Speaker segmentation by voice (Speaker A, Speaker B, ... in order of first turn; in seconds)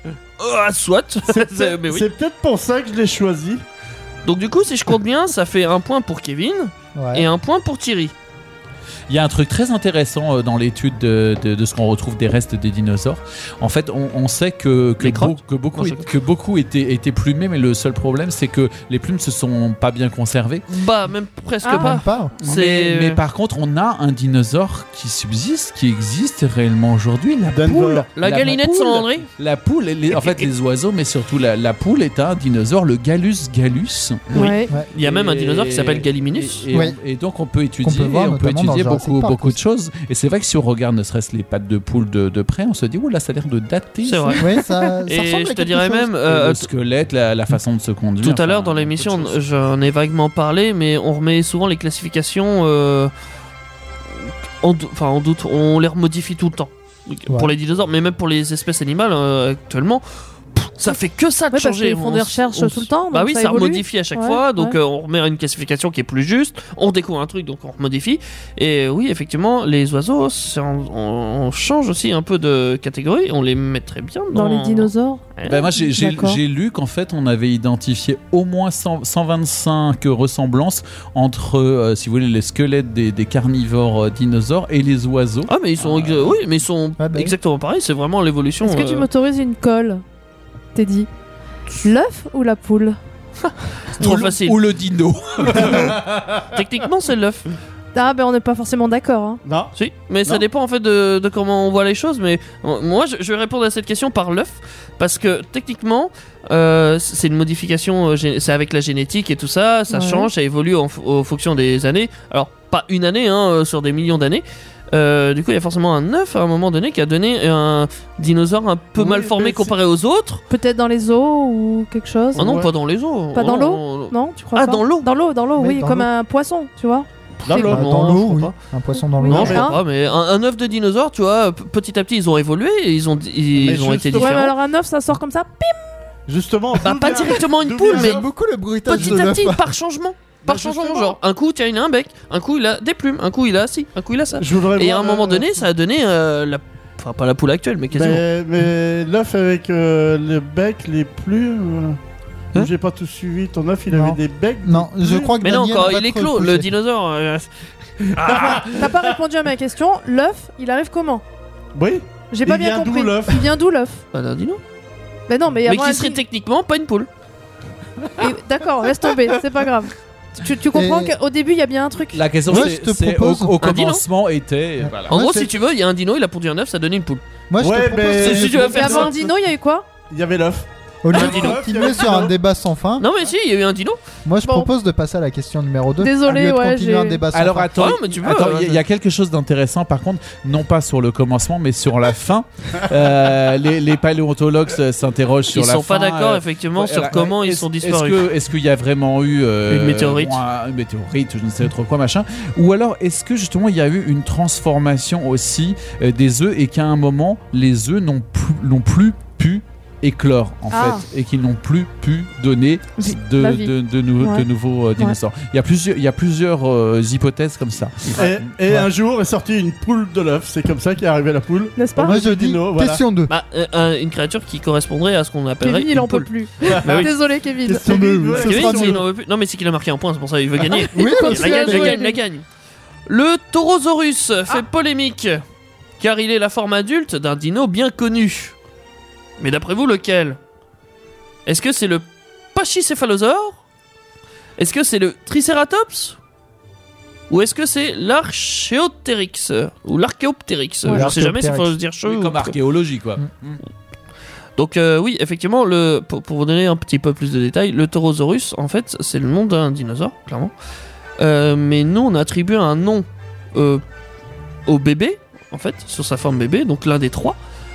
Speaker A: 0.4-2.0, 4.2-8.1, 15.0-16.1, 20.7-23.2, 28.1-29.3, 34.3-36.6, 44.0-44.4, 45.0-46.7, 48.2-53.1, 54.2-60.0, 60.5-75.6, 85.5-89.1, 94.0-94.6, 96.4-97.5, 99.7-120.4, 122.3-125.1, 127.5-128.5, 129.2-134.5, 136.8-138.2, 138.8-148.2, 155.4-158.6, 164.1-164.6, 165.7-167.1, 173.6-174.0, 175.1-177.2, 178.2-179.1, 181.1-182.2, 183.0-184.0, 187.8-188.8, 195.5-198.2, 199.7-200.4, 223.3-227.1, 228.3-232.4, 233.1-235.4, 236.0-238.6, 239.4-240.4, 241.4-243.6, 244.6-246.2, 247.3-252.6, 254.6-260.5, 261.2-263.8, 264.7-267.4
Speaker B: 1.3-3.6, 27.5-28.1, 95.6-95.9, 99.4-99.7, 119.0-119.7, 122.3-122.7, 127.5-127.8, 129.3-129.7, 133.6-134.4, 136.3-138.3, 140.4-141.2, 144.4-145.6, 147.9-152.0, 152.5-155.3, 158.2-158.9, 161.7-163.5, 177.6-179.3, 180.1-182.3, 218.2-223.0, 226.6-229.0
Speaker C: 6.9-7.3, 21.7-22.3, 36.7-37.0, 37.8-39.6, 44.4-46.1, 87.0-87.3, 125.6-126.1, 127.7-129.6, 137.8-139.7, 153.9-156.7, 170.7-171.1, 172.5-173.6, 174.8-175.5, 177.5-179.1, 181.0-183.0, 184.2-187.7, 222.0-223.3, 227.7-229.0, 230.9-232.1, 250.8-251.7
Speaker D: 9.1-20.6, 22.4-44.4, 46.2-49.4, 75.5-86.4, 94.0-96.1, 172.1-175.1, 187.3-218.4, 252.1-253.6
Speaker E: 21.6-22.0, 34.3-34.7, 61.5-64.8, 74.3-76.4, 88.6-90.0, 90.7-91.1, 91.8-93.0, 97.9-99.4, 109.9-110.3, 120.5-122.6, 123.3-127.7, 129.2-129.8, 134.1-135.8, 158.2-161.2, 162.3-164.0, 165.3-166.2, 168.2-172.2, 178.6-179.8, 184.4-184.7, 186.0-187.2, 210.7-211.0, 213.0-214.4, 221.8-222.2, 225.6-227.9, 230.9-232.2